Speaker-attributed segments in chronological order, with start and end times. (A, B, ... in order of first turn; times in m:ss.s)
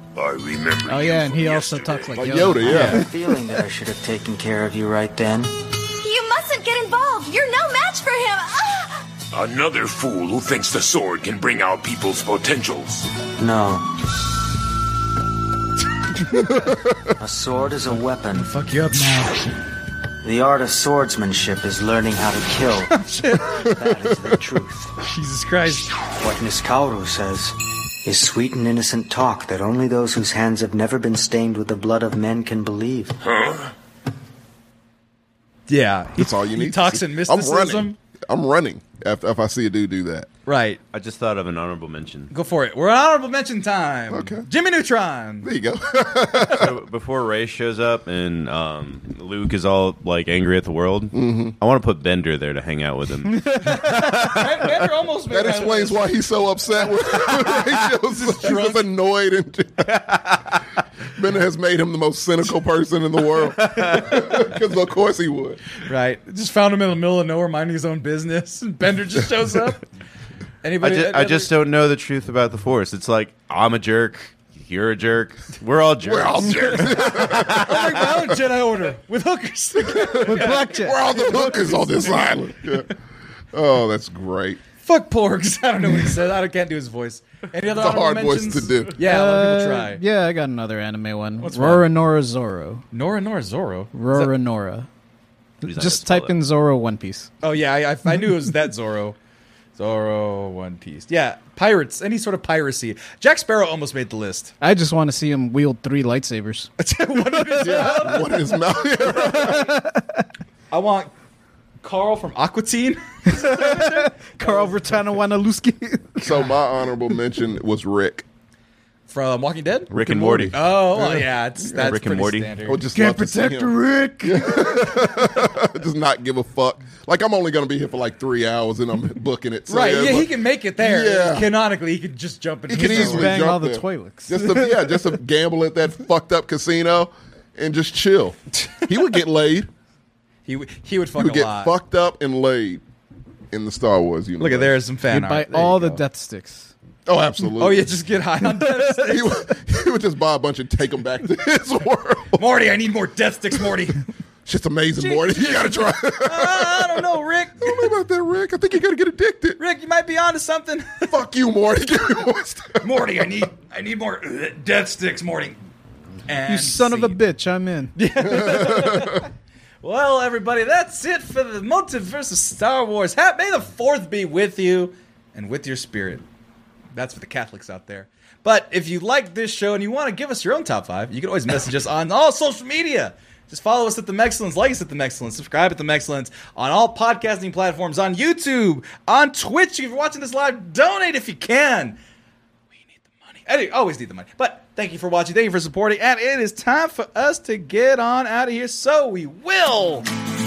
0:00.1-0:02.3 A
0:00.8-0:03.1 B
0:02.1-0:03.0 C
0:02.6-0:05.5 D
0:02.7-0:03.0 E
0:06.0-0:09.0 F
0:09.3-0:13.1 A
0:13.4-0:13.9 D
0:16.3-0:17.1 C
0:17.2-0:18.5 D
0:18.3-0:19.5 E
0:20.2-0:23.0 D
0:22.9-0:23.8 E
0:23.6-0:24.9 D
0:25.0-0:25.9 E
0:26.2-0:33.2 D
0:33.2-0:33.7 A
0:35.7-0:38.0 E
0:36.2-0:40.3 C
0:40.4-0:40.8 E
0:40.9-0:42.3 G
0:42.3-0:45.5 E
0:44.1-0:44.5 C
0:45.4-0:46.7 C
0:46.5-0:54.0 G
0:51.1-0:51.6 C
0:53.4-0:54.0 B
0:53.6-0:56.2 E
0:55.3-1:00.4 C
0:56.9-0:58.9 E
1:00.1-1:00.4 G
1:01.1-1:05.6 C
1:03.9-1:04.4 E
1:05.8-1:09.8 E
1:10.6-1:11.5 E
1:10.8-1:17.9 G
1:16.0-1:18.3 C
1:17.4-1:22.9 E
1:19.8-1:22.9 C
1:20.2-1:21.3 B
1:23.5-1:24.6 C
1:24.8-1:30.0 E
1:27.7-1:29.0 C
1:29.0-1:32.8 B
1:31.4-1:31.9 E
1:32.9-1:34.3 E
1:33.9-1:34.9 B
1:35.6-1:36.4 G
1:35.6-1:37.3 B
1:37.4-1:39.2 E
1:39.8-1:44.5 E
1:44.6-1:46.7 B
1:46.8-1:48.6 E
1:47.4-1:48.2 B
1:47.6-1:49.7 C
1:49.1-1:50.2 B
1:49.2-1:49.5 E
1:50.7-1:51.1 E
1:51.8-1:55.0 E
1:53.3-1:56.3 B
1:56.2-1:58.2 C
1:59.1-2:04.0 E
1:59.9-2:00.6 G
2:00.1-2:00.4 C
2:00.9-2:01.8 C
2:01.7-2:02.5 G
2:02.6-2:11.5 C
2:02.9-2:04.4 B
2:09.7-2:13.4 E
2:12.7-2:19.7 C
2:12.7-2:15.2 B
2:18.6-2:19.2 E
2:20.4-2:21.7 E
2:21.2-2:22.8 C
2:23.5-2:24.8 C
2:24.4-2:26.0 E
2:25.1-2:26.7 B
2:27.1-2:27.9 C
2:27.6-2:29.5 E
2:29.0-2:32.4 C
2:32.4-2:34.0 E
2:34.4-2:37.1 C
2:35.0-2:37.9 E
2:37.6-2:39.6 C
2:39.6-2:41.2 E
2:41.1-2:43.3 C
2:42.8-2:45.6 E
2:46.3-2:47.2 E
2:46.5-2:47.9 B
2:48.0-2:49.3 E
2:48.3-2:49.2 C
2:49.8-2:56.2 E
2:56.9-3:12.0 E
3:13.3-3:20.1 E